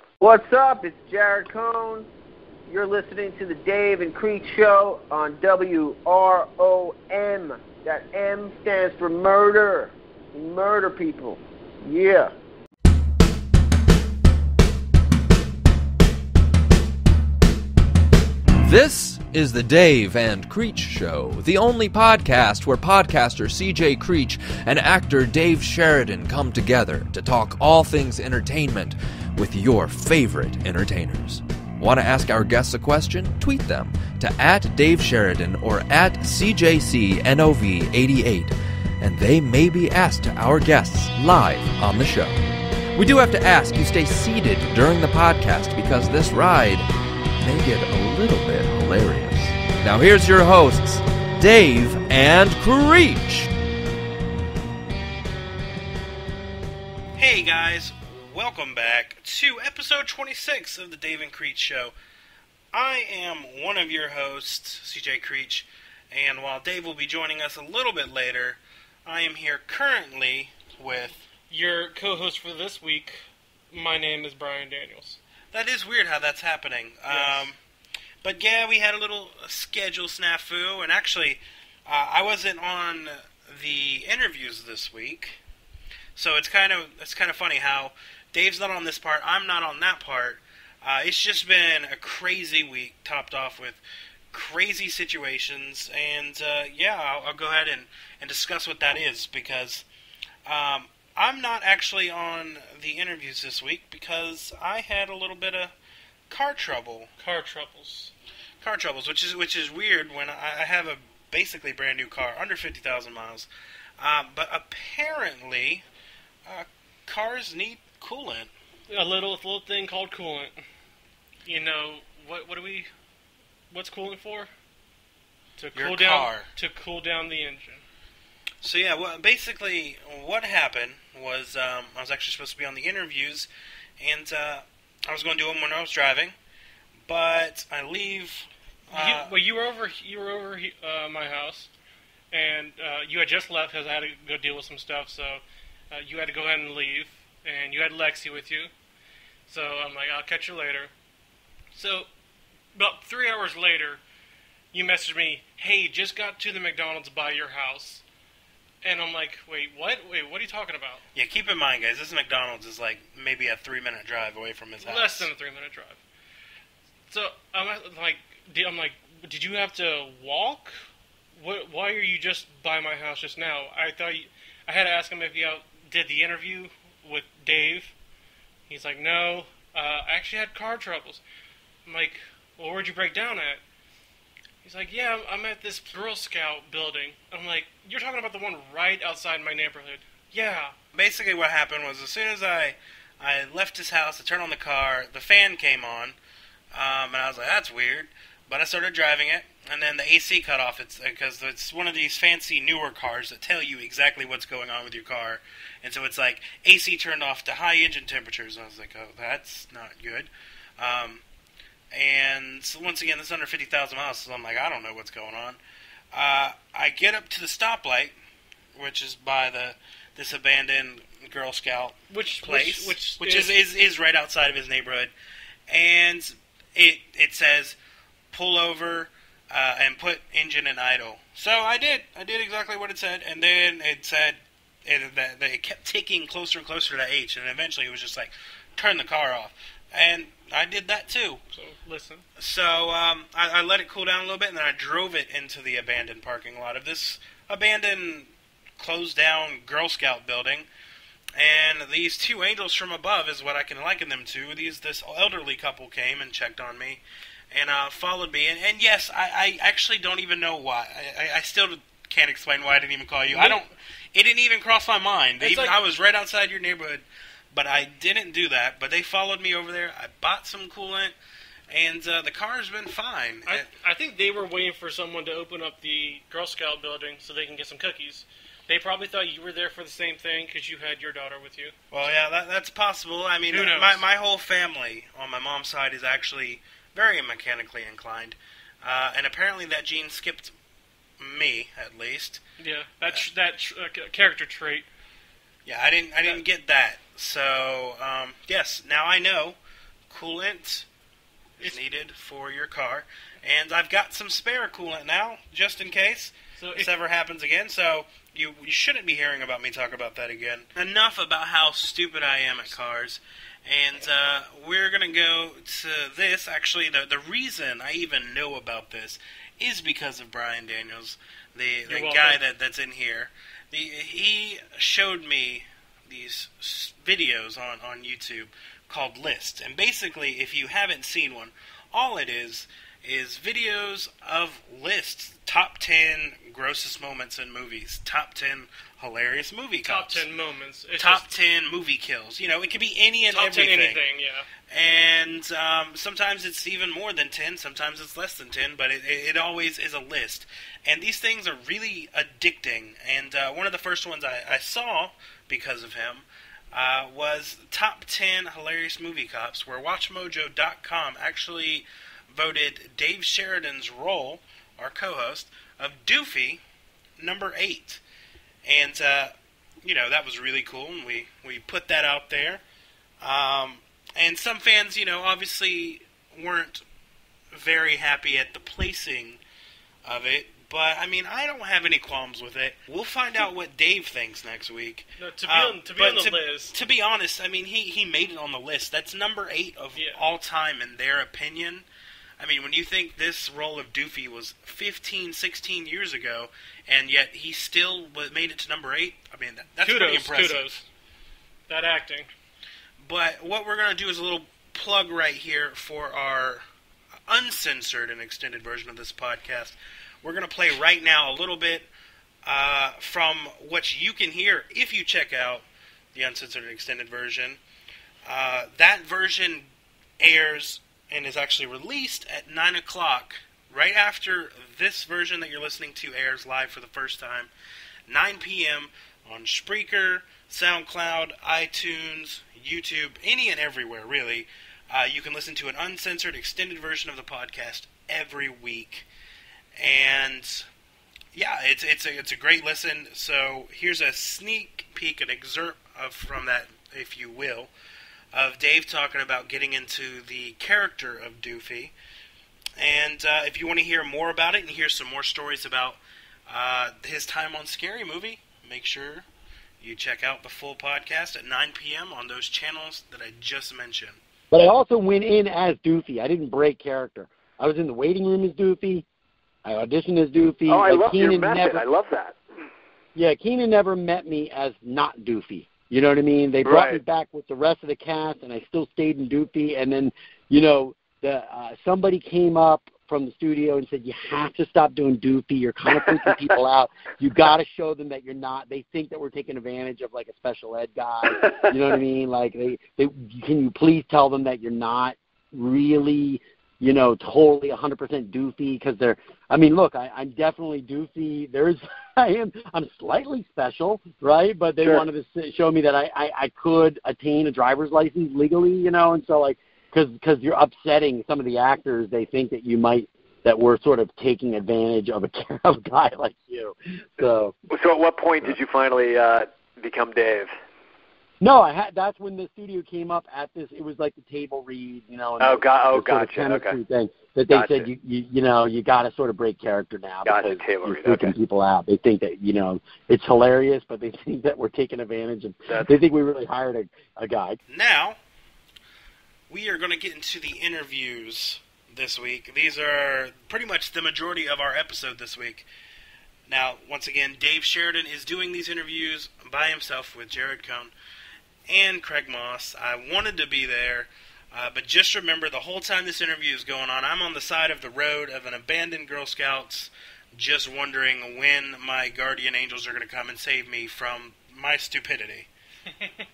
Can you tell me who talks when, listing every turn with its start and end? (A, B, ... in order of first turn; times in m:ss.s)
0:00.2-0:02.1 A
0:02.7-0:12.3 A
0:18.6-0:42.4 B
0:42.9-0:46.9 B
0:47.4-0:53.5 B
0:57.2-1:01.9 C
1:02.7-1:11.3 C
1:11.5-1:15.2 D
1:15.5-1:17.6 C
1:17.1-1:17.5 D
1:18.2-1:25.4 C
1:26.1-1:39.8 C
1:40.4-1:45.7 C
1:46.3-1:47.1 C
1:47.2-1:48.1 D
1:48.6-1:53.5 C
1:54.0-1:55.8 C
1:56.4-1:58.5 C
1:58.9-2:00.6 D
2:01.4-2:02.9 D
2:03.7-2:04.5 D
2:05.6-2:07.8 D
2:05.7-2:06.5 C
2:08.6-2:13.5 C
2:14.0-2:16.3 C
2:17.0-2:19.3 C
2:18.9-2:21.7 D
2:22.3-2:28.7 D
2:29.5-2:30.9 D
2:31.7-2:32.1 D
2:32.7-2:34.0 D
2:34.7-2:38.0 D
2:38.8-2:41.0 D
2:41.1-2:45.3 C
2:44.8-2:46.0 D
2:47.1-2:50.8 D
2:51.4-2:57.9 D
2:58.7-3:01.2 D
3:01.8-3:03.6 D
3:04.6-3:10.7 D
3:10.9-3:16.2 C
3:16.7-3:31.2 C
3:31.9-3:35.6 C
3:36.1-3:38.1 C
3:38.8-3:45.1 C
3:42.1-3:43.6 D
3:45.7-3:47.8 C
3:48.3-4:01.4 C
4:01.5-4:02.2 D
4:02.4-4:10.7 C
4:11.4-4:17.0 C
4:17.5-4:31.1 C
4:23.3-4:23.6 D
4:25.4-4:25.8 D
4:31.7-4:33.7 C
4:33.4-4:41.7 D
4:41.9-4:50.5 C
4:43.5-4:44.0 D
4:51.2-4:52.4 C
4:52.6-4:54.9 D
4:55.6-4:59.6 C
5:00.1-5:00.9 C
5:01.6-5:40.2 C
5:06.6-5:06.9 D
5:21.9-5:22.4 D
5:39.8-5:41.2 D
5:41.0-5:44.0 C
5:43.3-5:44.5 D
5:44.7-6:06.6 C
6:07.2-6:08.0 C
6:08.6-6:12.6 C
6:13.2-6:16.8 C
6:17.5-6:19.4 C
6:20.0-6:31.8 C
6:25.2-6:26.7 D
6:29.9-6:30.2 D
6:32.4-6:40.6 C
6:39.8-6:40.9 D
6:41.7-6:42.3 D
6:43.0-6:46.6 C
6:47.3-6:51.9 C
6:52.4-6:57.6 C
6:58.2-6:59.7 C
7:00.2-7:07.5 C
7:08.1-7:19.1 C
7:19.8-7:20.7 C
7:21.3-7:27.7 C
7:28.3-7:31.9 C
7:32.8-7:39.2 C
7:39.8-7:44.2 C
7:44.5-7:49.0 E
7:49.6-7:51.8 E
7:50.7-7:52.4 F
7:53.1-8:37.5 E
7:56.6-7:57.0 F
8:37.7-8:40.5 F
8:41.4-8:57.6 E
8:45.4-8:46.8 F
8:47.5-8:47.9 F
8:50.2-8:51.3 F
8:57.7-8:58.2 C
8:59.5-9:05.6 C
9:06.5-9:10.9 C
9:11.7-9:25.5 C